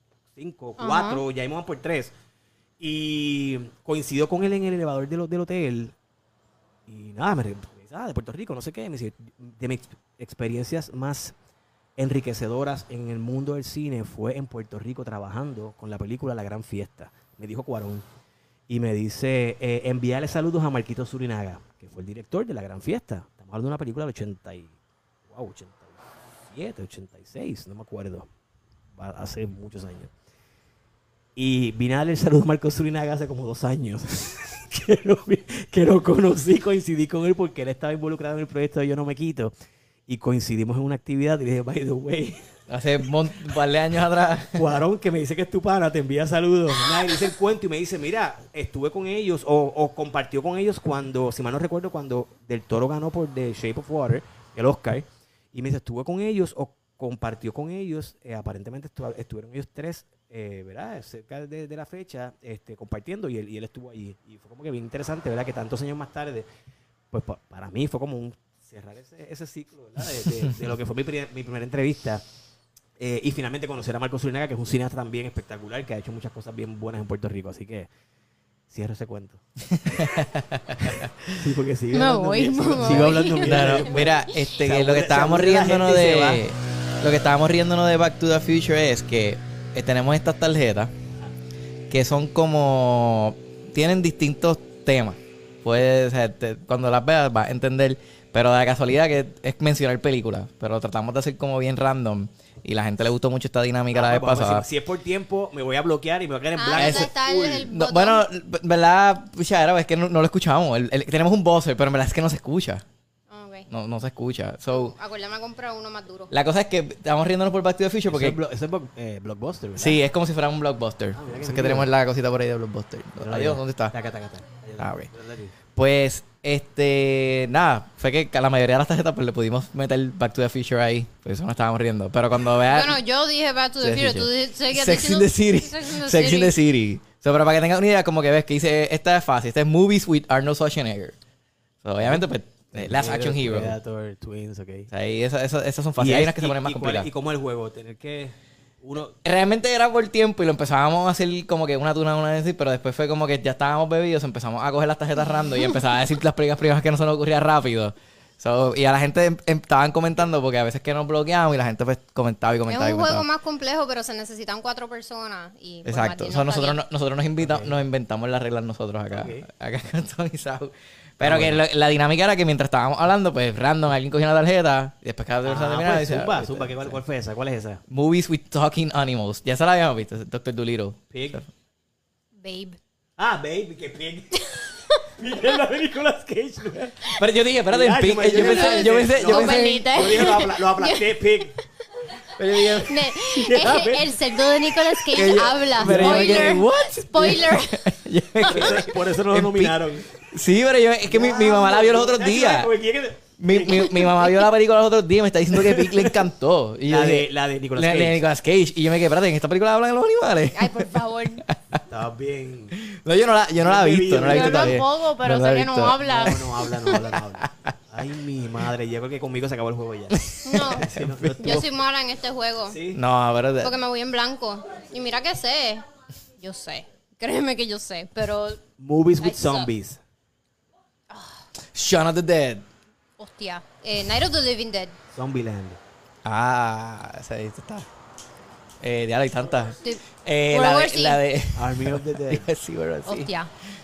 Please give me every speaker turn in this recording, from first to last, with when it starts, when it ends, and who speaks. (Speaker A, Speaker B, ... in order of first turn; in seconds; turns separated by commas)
Speaker A: 0.3-2.1, Speaker B: 0.8-1.2, Speaker A: 2.8-6.0, Speaker A: 6.9-11.3, Speaker A: 12.0-18.1, Speaker A: 18.7-24.8, Speaker A: 25.3-28.3, Speaker A: 29.0-30.1, Speaker A: 31.4-39.5, Speaker A: 40.1-42.4, Speaker C: 42.7-44.7, Speaker A: 44.5-66.5, Speaker A: 67.1-72.2, Speaker A: 73.0-77.9, Speaker A: 78.7-79.4, Speaker C: 79.7-81.4, Speaker A: 80.8-86.4, Speaker B: 81.9-83.9, Speaker C: 82.8-90.9, Speaker C: 91.9-104.7, Speaker A: 103.9-107.7, Speaker B: 106.6-108.2, Speaker C: 106.8-107.1, Speaker C: 107.7-112.8, Speaker B: 113.3-113.7, Speaker C: 113.7-115.0, Speaker B: 114.7-116.3, Speaker C: 116.3-118.4, Speaker A: 118.1-120.0, Speaker C: 119.8-124.0, Speaker A: 121.1-121.9, Speaker A: 123.2-125.5, Speaker C: 124.8-125.1, Speaker C: 125.8-133.0, Speaker B: 132.7-136.6, Speaker C: 133.8-141.2, Speaker C: 141.8-143.8, Speaker A: 142.0-144.9, Speaker C: 144.9-147.1, Speaker A: 146.0-149.2, Speaker C: 149.2-163.3, Speaker B: 162.7-166.8, Speaker C: 165.9-177.0, Speaker A: 167.4-167.7, Speaker A: 169.1-169.5, Speaker A: 171.2-171.6, Speaker A: 175.4-177.8, Speaker C: 177.9-181.4, Speaker A: 181.1-181.4, Speaker B: 182.4-182.8, Speaker A: 183.2-184.5, Speaker B: 184.4-185.0, Speaker A: 185.1-187.2, Speaker C: 187.1-190.0, Speaker A: 187.7-191.6, Speaker B: 188.3-191.3, Speaker C: 192.4-193.1, Speaker A: 192.8-194.1, Speaker B: 192.8-198.7, Speaker C: 195.1-202.7, Speaker A: 195.8-196.6, Speaker A: 198.5-200.2, Speaker A: 201.1-204.3, Speaker C: 203.4-210.9, Speaker A: 205.5-206.2, Speaker A: 206.9-208.2, Speaker B: 210.5-211.5, Speaker C: 211.5-211.8, Speaker A: 211.9-212.8, Speaker C: 212.7-216.0, Speaker A: 213.6-214.8, Speaker B: 214.2-217.0, Speaker A: 216.0-221.7, Speaker C: 217.4-217.7, Speaker C: 220.1-221.7, Speaker B: 220.4-222.8, Speaker A: 222.7-223.0, Speaker C: 222.9-223.8, Speaker B: 223.6-225.8, Speaker B: 226.4-228.6, Speaker A: 228.8-230.0, Speaker B: 229.2-229.7, Speaker B: 231.1-231.4, Speaker C: 231.7-232.7, Speaker B: 233.2-235.0, Speaker A: 235.1-235.8, Speaker C: 236.2-237.9, Speaker C: 238.8-243.3, Speaker B: 239.8-241.2, Speaker A: 241.5-242.5, Speaker B: 243.1-243.5